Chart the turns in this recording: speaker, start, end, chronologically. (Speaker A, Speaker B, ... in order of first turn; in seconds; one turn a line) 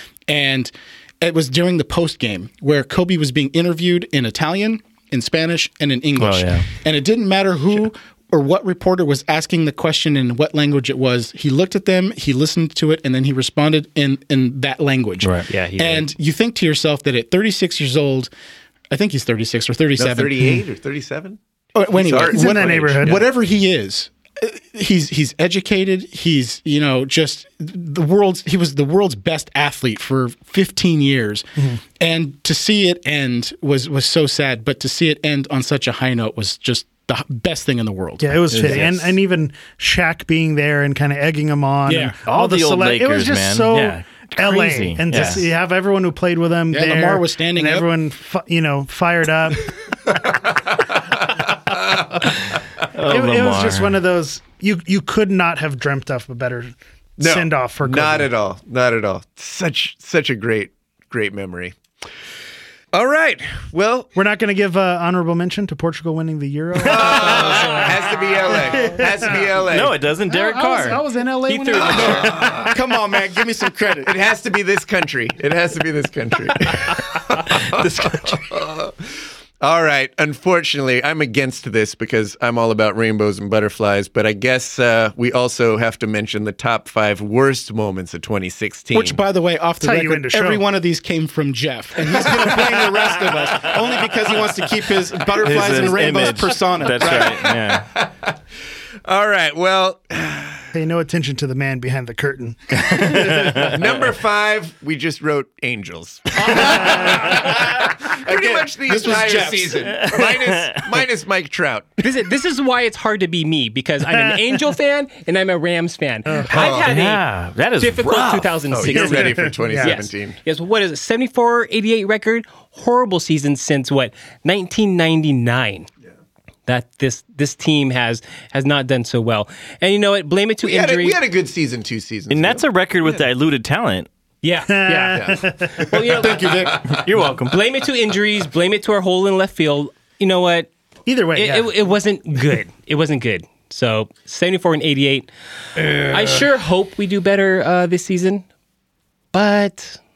Speaker A: 0.3-18.3
Speaker B: 6.2-6.7
Speaker C: 15.5-16.1
Speaker A: 18.9-20.6
Speaker D: 20.0-23.2
Speaker A: 21.7-38.9
Speaker E: 22.1-23.2
Speaker E: 38.2-49.7
Speaker B: 38.5-39.0
Speaker A: 41.9-42.1
Speaker B: 42.2-45.5
Speaker A: 46.7-47.9
Speaker D: 50.1-52.2
Speaker B: 52.9-54.0
Speaker E: 53.0-58.3
Speaker D: 57.2-61.8
Speaker D: 62.9-64.1
Speaker E: 64.1-69.5
Speaker D: 66.8-69.9
Speaker B: 69.7-71.0
Speaker E: 70.3-72.7
Speaker C: 71.5-72.4
Speaker D: 71.8-72.7
Speaker A: 72.6-74.1
Speaker D: 74.0-89.2
Speaker A: 88.9-97.5
Speaker E: 89.8-90.6
Speaker B: 95.2-97.9
Speaker D: 97.0-98.3
Speaker D: 99.0-100.7
Speaker E: 100.7-103.8
Speaker D: 103.0-112.0
Speaker A: 106.4-110.0
Speaker B: 110.0-110.8
Speaker C: 112.0-117.2
Speaker D: 116.5-116.9
Speaker B: 116.7-118.6
Speaker C: 117.8-125.9
Speaker D: 118.7-120.4
Speaker E: 118.9-120.0
Speaker C: 126.7-131.2
Speaker D: 130.6-132.6
Speaker B: 132.3-134.1
Speaker C: 134.4-136.8
Speaker E: 134.7-135.8
Speaker D: 135.2-137.1
Speaker A: 136.0-137.0
Speaker B: 136.9-137.6
Speaker C: 137.4-140.7
Speaker E: 141.1-141.7
Speaker C: 141.3-148.4
Speaker D: 145.9-146.2
Speaker C: 149.3-150.0